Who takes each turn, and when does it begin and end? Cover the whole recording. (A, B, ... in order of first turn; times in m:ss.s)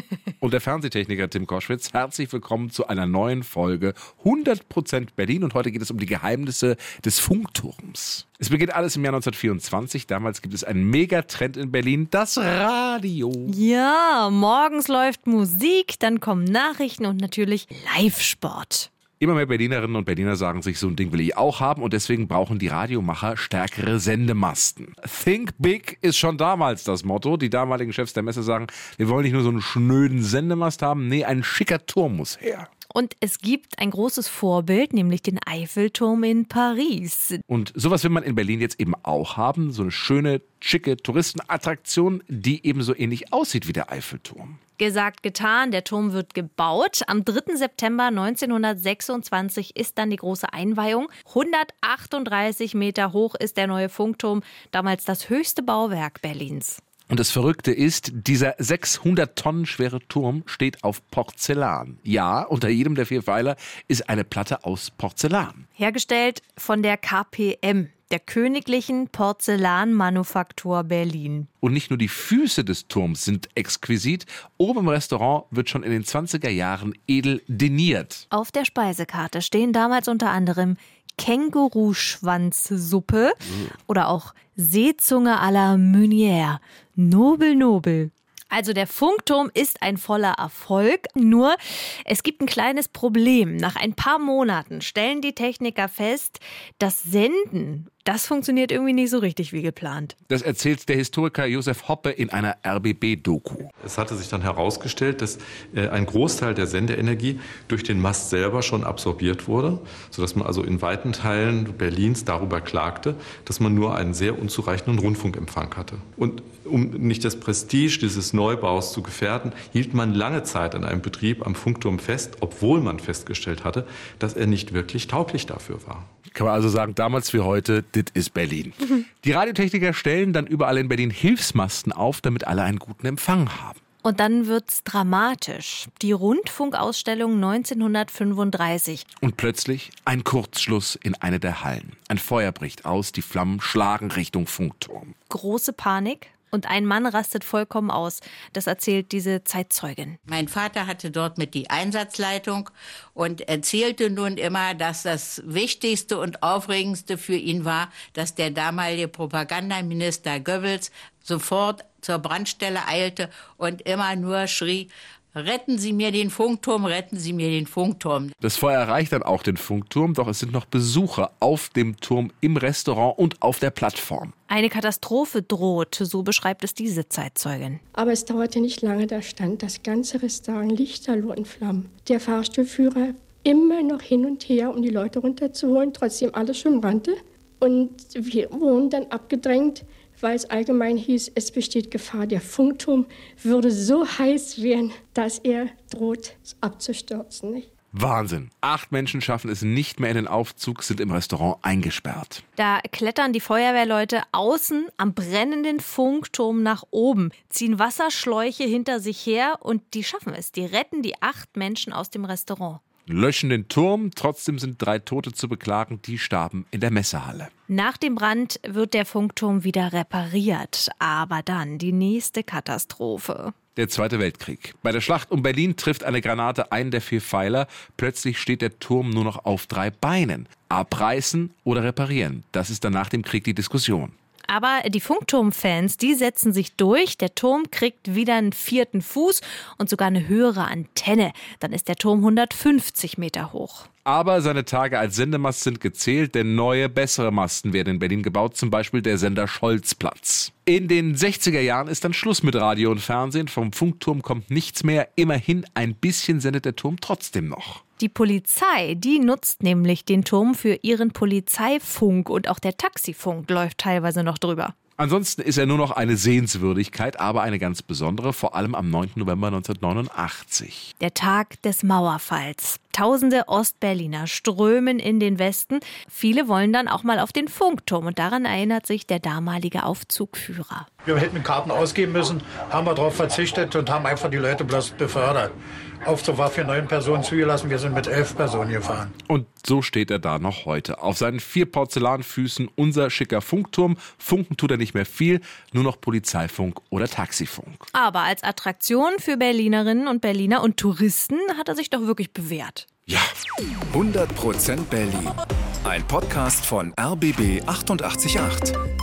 0:00.4-0:13.5 A
0:13.5-0:18.9 B
0:19.2-0:32.7 A
0:32.9-0:37.4 B
0:37.5-0:44.6 A
0:44.8-0:56.8 B
0:57.1-1:05.6 A
1:05.8-1:11.5 B
1:11.6-1:18.2 A
1:18.3-1:40.1 B
1:40.3-1:43.7 A
1:43.8-2:06.1 C
2:06.3-2:13.8 A
2:14.0-2:19.0 B
2:19.2-2:25.1 A
2:25.3-2:30.2 B
2:30.3-2:48.3 D
2:48.4-2:54.3 A
2:54.5-2:57.8 B
2:57.9-3:17.7 E
3:17.9-3:22.4 A
3:22.6-3:32.8 B
3:33.1-3:37.5 A
3:37.7-3:43.5 B
3:43.8-3:54.1 A
3:54.5-4:03.8 B
4:04.0-4:17.8 A
4:18.0-4:24.7 B
4:25.0-4:30.9 A
4:31.0-4:40.9 B
4:41.0-4:45.5 F
4:46.0-4:49.1 F
4:49.3-4:57.8 A
4:57.9-5:02.8 B
5:03.9-5:08.8 G